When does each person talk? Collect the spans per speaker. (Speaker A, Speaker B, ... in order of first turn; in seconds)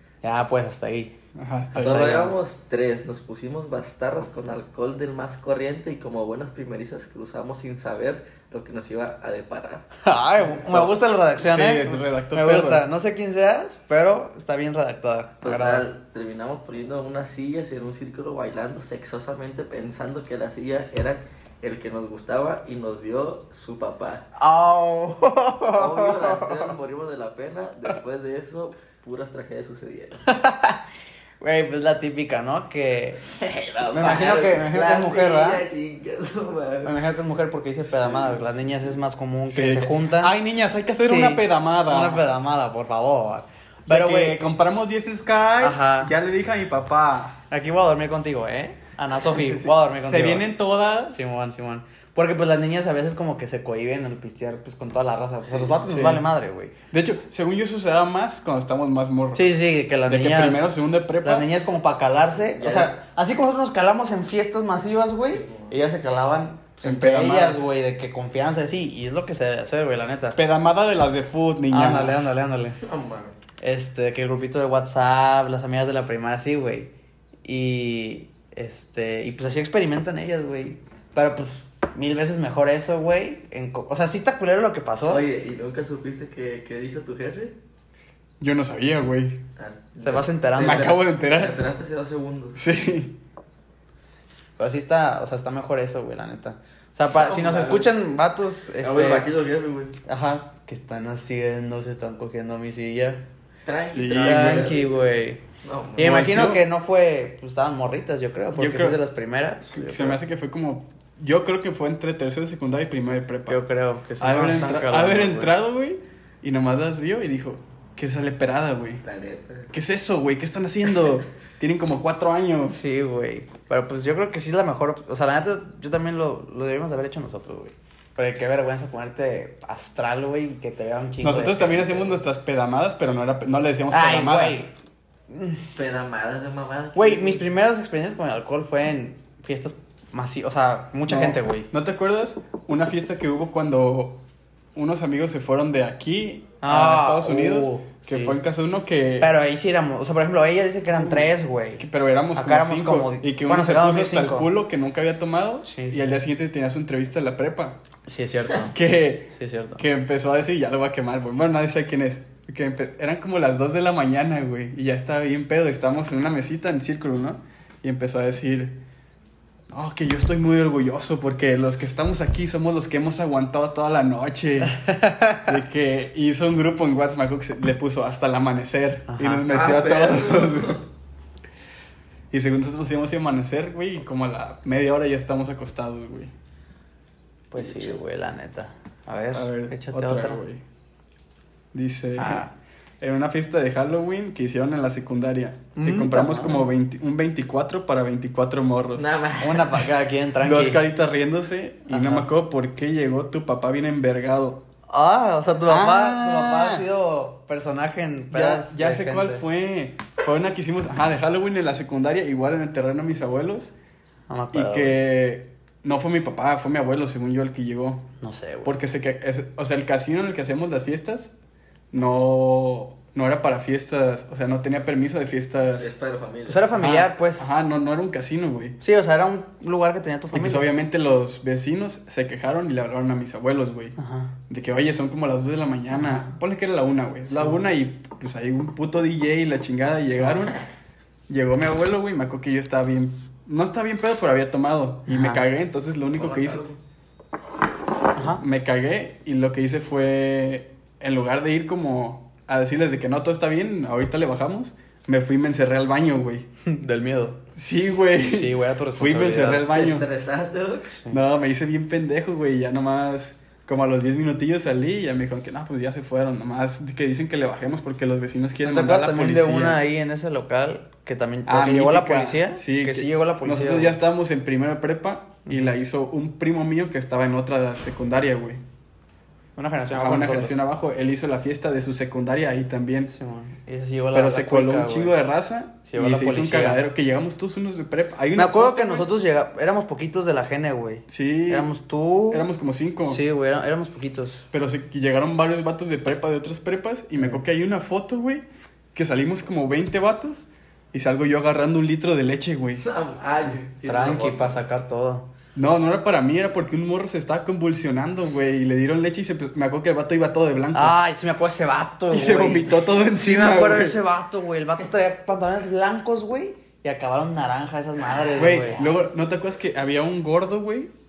Speaker A: 0.2-1.1, 1.7-2.4, 10.0-15.8, 24.4-26.7, 30.3-30.8, 31.4-33.2, 33.9-35.6, 36.8-40.3, 41.0-44.4, 45.6-46.1, 47.5-50.5, 51.1-56.7, 59.4-70.4, 71.7-72.8, 73.6-76.9, 77.4-85.3, 90.0-91.0, 94.6-99.3, 100.1-103.2, 104.2-105.4, 106.0-110.2, 113.5-115.5, 122.7-132.2, 133.9-134.7, 135.3-135.6, 136.9-141.7, 146.6-148.4, 149.2-154.5, 155.7-156.2, 158.1-158.8, 159.3-159.8, 174.8-175.5, 179.1-179.5, 187.5-190.4, 192.2-192.5, 195.8-196.7, 199.4-200.8, 201.9-202.3, 204.9-209.4, 214.3-215.0, 218.2-218.8, 226.5-227.5, 228.8-230.7, 234.0-234.3, 235.9-236.3, 237.3-237.6, 240.1-240.6, 245.1-245.4, 248.2-248.4, 256.6-257.4, 258.2-259.7, 260.9-261.2, 268.6-274.0, 275.5-275.8, 279.6-280.6, 283.1-285.2, 285.9-286.8, 288.4-292.5, 293.1-294.4, 303.9-305.3, 310.7-318.9
Speaker B: 1.4-2.1, 10.7-12.8, 39.5-42.2, 43.9-47.4, 49.6-51.2, 55.9-56.2, 56.9-61.5, 66.8-67.6, 70.4-72.3, 88.4-89.4, 90.6-91.6, 92.6-93.2, 103.9-104.8, 106.0-106.6, 108.5-109.0, 109.7-113.6, 114.2-119.0, 119.7-122.8, 131.2-134.6, 141.1-144.2, 144.8-149.3, 150.9-157.8, 158.7-168.8, 169.7-180.8, 182.3-186.3, 189.3-190.6, 191.7-192.5, 193.0-199.1, 200.4-204.6, 205.7-206.9, 208.3-213.7, 214.5-218.1, 218.7-221.3, 221.9-225.9, 226.8-228.8, 230.3-234.0, 234.5-240.6, 241.3-246.6, 248.4-256.5, 257.6-260.1, 261.1-269.8, 271.5-278.6, 279.9-283.1, 284.1-289.1, 291.1-291.7, 292.3-293.2, 294.5-302.9, 305.6-311.0, 312.1-314.0, 318.4-320.9
Speaker C: 1.8-9.9, 15.4-24.3, 25.7-30.3, 33.4-37.0, 37.8-39.0, 55.4-55.8, 62.5-63.0, 65.2-65.8, 72.8-73.3, 85.1-87.6, 89.6-92.6, 97.1-97.9, 98.8-100.0, 103.7-105.0, 105.6-106.1, 119.0-119.7, 135.8-137.5, 179.5-180.8, 187.6-187.9, 198.9-199.8, 225.7-226.7, 246.1-246.8, 259.7-261.0, 302.8-304.6